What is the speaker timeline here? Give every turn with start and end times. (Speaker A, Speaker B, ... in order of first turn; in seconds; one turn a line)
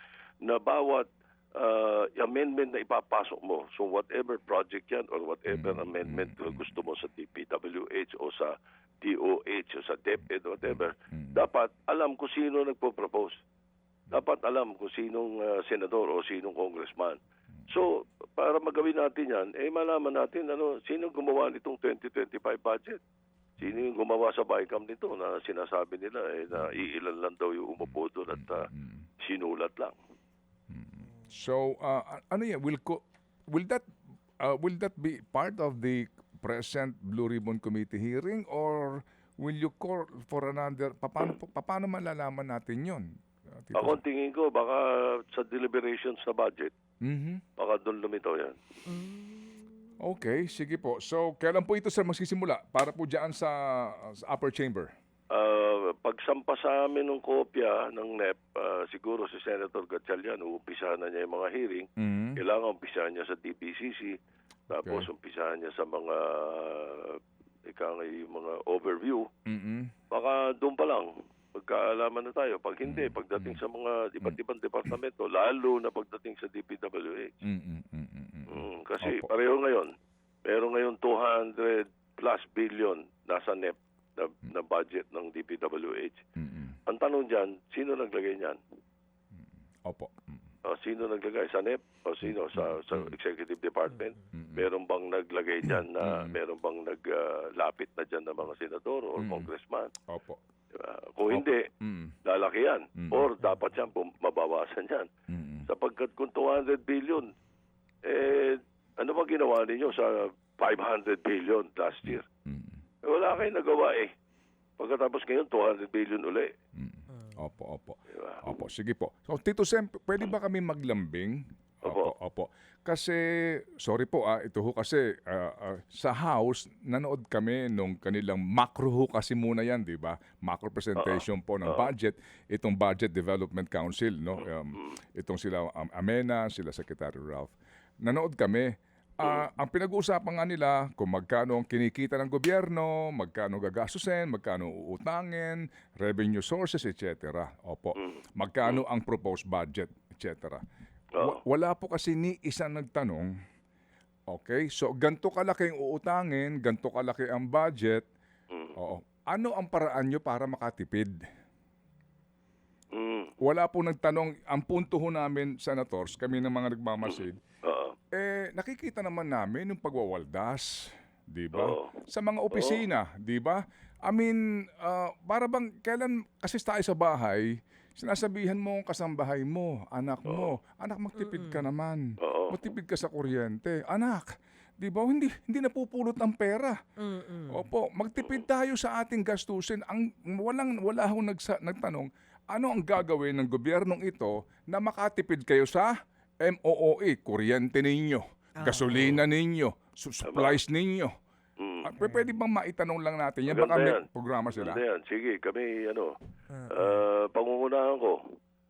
Speaker A: 0.4-13.4
Speaker B: 5.5-6.8
Speaker B: 10.6-11.4
Speaker A: 14.1-23.0
Speaker A: 23.6-28.7
Speaker B: 26.5-26.9
Speaker B: 27.8-29.1
Speaker A: 29.2-29.9
Speaker B: 30.7-33.8
Speaker B: 34.4-43.0
Speaker B: 43.6-44.0
Speaker A: 43.7-46.7
Speaker B: 47.0-47.4
Speaker A: 47.6-48.6
Speaker C: 48.9-49.7
Speaker B: 50.0-54.9
Speaker A: 55.3-61.9
Speaker B: 62.0-62.4
Speaker A: 62.4-64.1
Speaker A: 64.7-69.3
Speaker B: 64.7-65.1
Speaker B: 69.5-69.9
Speaker A: 70.1-77.4
Speaker B: 72.8-73.6
Speaker B: 77.4-79.3
Speaker A: 78.5-79.9
Speaker A: 80.5-86.2
Speaker B: 86.4-86.8
Speaker A: 86.9-88.6
Speaker B: 89.3-90.4
Speaker A: 90.7-99.9
Speaker B: 92.2-93.1
Speaker B: 94.3-94.7
Speaker B: 95.7-96.3
Speaker B: 99.2-99.5
Speaker B: 100.1-100.4
Speaker A: 100.7-101.7
Speaker B: 101.3-102.2
Speaker A: 102.2-105.1
Speaker B: 103.0-103.3
Speaker B: 105.3-105.7
Speaker A: 105.7-107.3
Speaker A: 108.1-112.2
Speaker B: 112.0-112.8
Speaker A: 113.0-114.1
Speaker A: 114.8-116.5
Speaker B: 116.8-123.2
Speaker C: 117.1-117.4
Speaker A: 118.1-118.4
Speaker A: 121.8-122.1
Speaker B: 123.8-138.7
Speaker A: 131.0-131.9
Speaker A: 134.4-135.0
Speaker B: 139.2-150.6
Speaker A: 148.0-148.8
Speaker B: 151.2-153.3
Speaker B: 154.3-158.1
Speaker A: 158.5-158.8
Speaker B: 158.8-161.1
Speaker A: 162.9-163.3
Speaker B: 163.4-167.4
Speaker A: 167.0-167.9
Speaker B: 168.1-184.3
Speaker A: 171.5-171.9
Speaker A: 172.5-172.8
Speaker A: 180.3-180.5
Speaker C: 181.2-181.6
Speaker A: 182.2-182.5
Speaker B: 184.8-186.8
Speaker C: 187.0-187.6
Speaker B: 187.5-195.9
Speaker A: 188.2-188.4
Speaker B: 196.4-201.1
Speaker C: 198.6-199.2
Speaker A: 200.3-200.6
Speaker A: 201.6-201.9
Speaker B: 201.8-204.8
Speaker C: 202.0-202.3
Speaker A: 203.5-204.0
Speaker A: 204.5-206.1
Speaker C: 206.5-207.0
Speaker A: 206.7-208.2